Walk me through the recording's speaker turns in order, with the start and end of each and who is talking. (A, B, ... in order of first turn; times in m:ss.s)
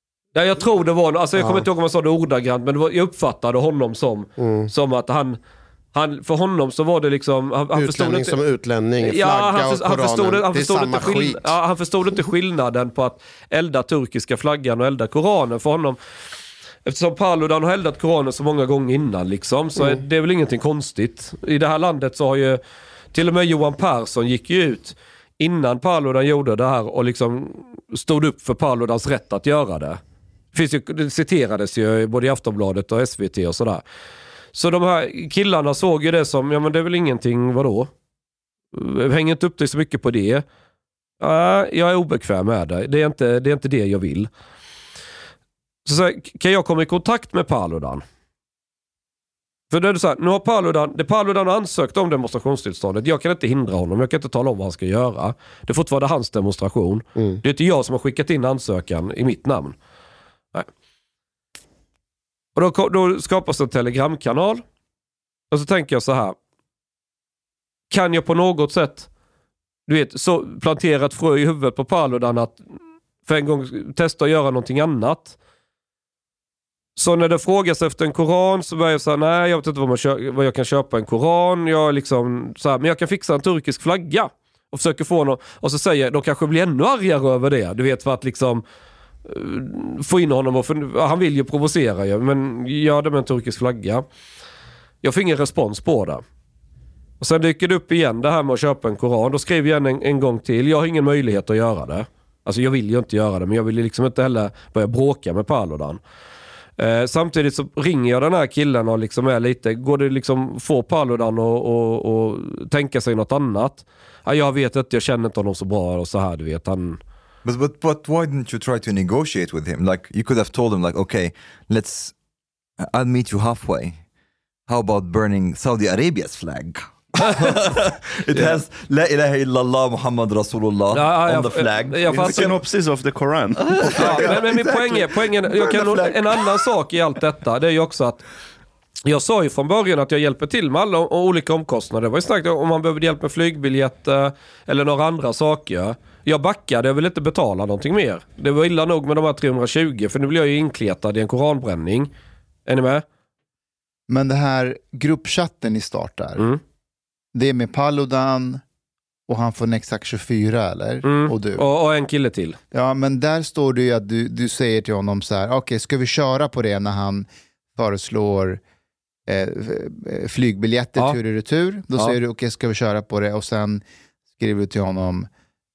0:00.3-0:05.4 A
0:01.4-0:01.6 B
0:04.4-0:04.7 B
0:05.9-0:08.4 A
0:07.7-0:11.5 B
0:09.0-0:16.0 A
0:16.8-0:22.6 A
0:23.1-0:30.0 A
0:30.5-0:33.8 A
0:34.5-0:37.9 A
0:38.7-0:40.4 A
0:41.2-0:44.3 A
0:45.8-0:48.0 A
0:49.7-0:59.8 A
1:02.6-1:04.6 A
1:05.5-1:06.4 A
1:07.9-1:09.1 A
1:09.9-1:12.6 A
1:13.2-1:15.4 A
1:17.0-1:28.6 A
1:29.2-1:34.0 A
1:35.0-1:36.2 A
1:37.2-1:46.0 A
1:46.8-1:57.0 A
1:57.4-2:02.1 C
2:02.8-2:04.0 C
2:04.7-2:12.6 C
2:07.2-2:07.6 A
2:10.9-2:12.6 A
2:12.2-2:14.6 D
2:13.6-2:16.4 C
2:14.0-2:18.2 A
2:19.0-2:32.1 A
2:32.6-2:33.0 A
2:34.1-2:36.5 E
2:37.3-2:38.6 E
2:39.3-2:41.6 E
2:41.0-2:42.6 A
2:42.7-2:48.6 E
2:49.3-2:53.8 E
2:54.4-2:55.3 E